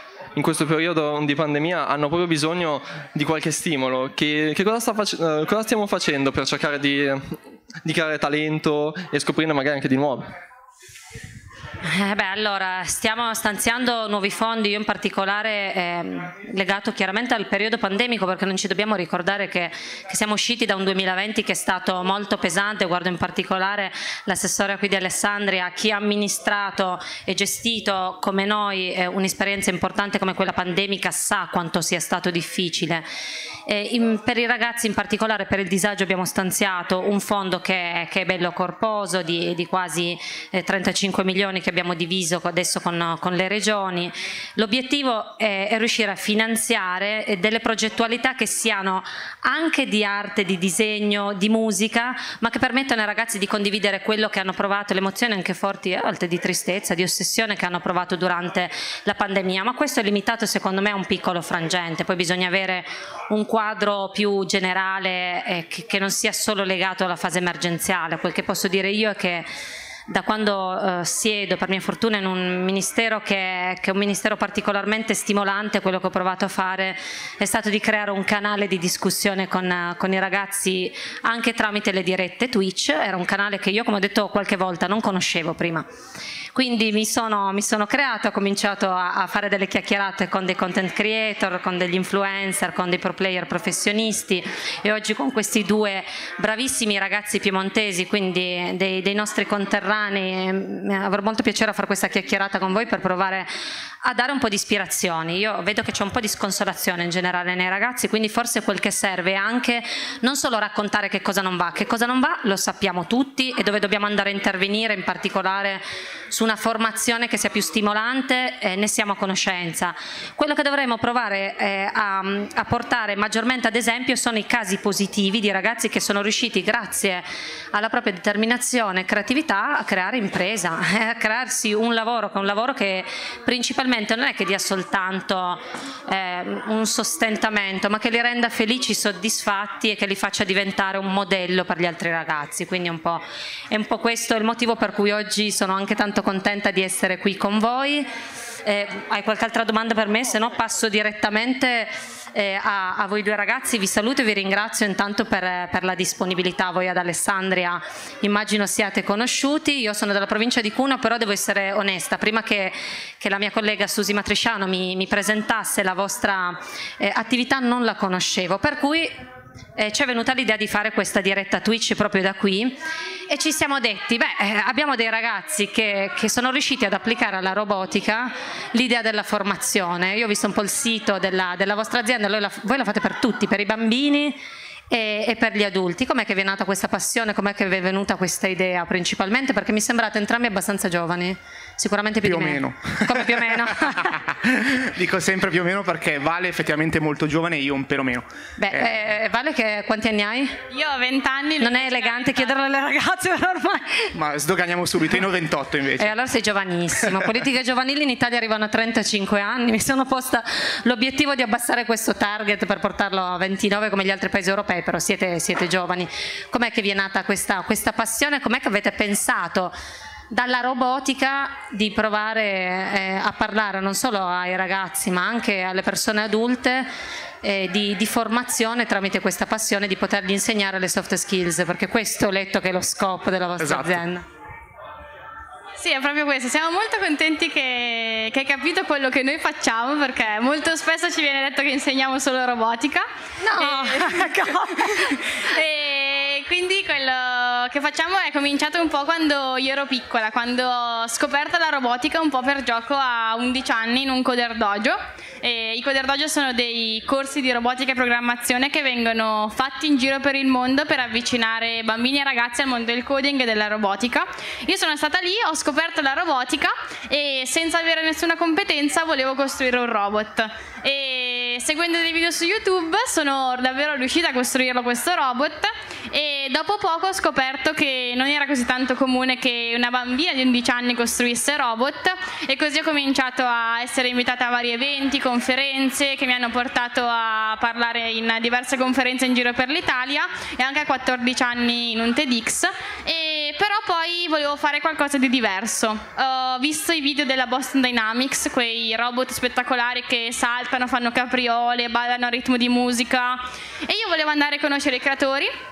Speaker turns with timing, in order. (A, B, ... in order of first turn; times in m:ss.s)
0:00.3-0:10.3 A
0:11.8-0:33.0 B
0:33.7-1:09.5 B
1:10.1-1:25.8 B
1:26.5-1:43.5 B
1:44.0-2:49.1 B
2:49.8-3:04.4 B
3:04.9-3:14.2 B
3:12.2-3:18.9 C
3:18.6-3:20.6 B
3:20.7-3:22.5 D
3:21.6-3:24.1 B
3:24.1-3:26.1 C
3:26.0-3:39.8 B
3:40.3-3:46.9 B
3:47.4-3:54.2 B
3:53.6-3:54.0 C
3:55.8-4:03.1 D
4:03.4-4:05.2 B
4:03.6-5:05.5 D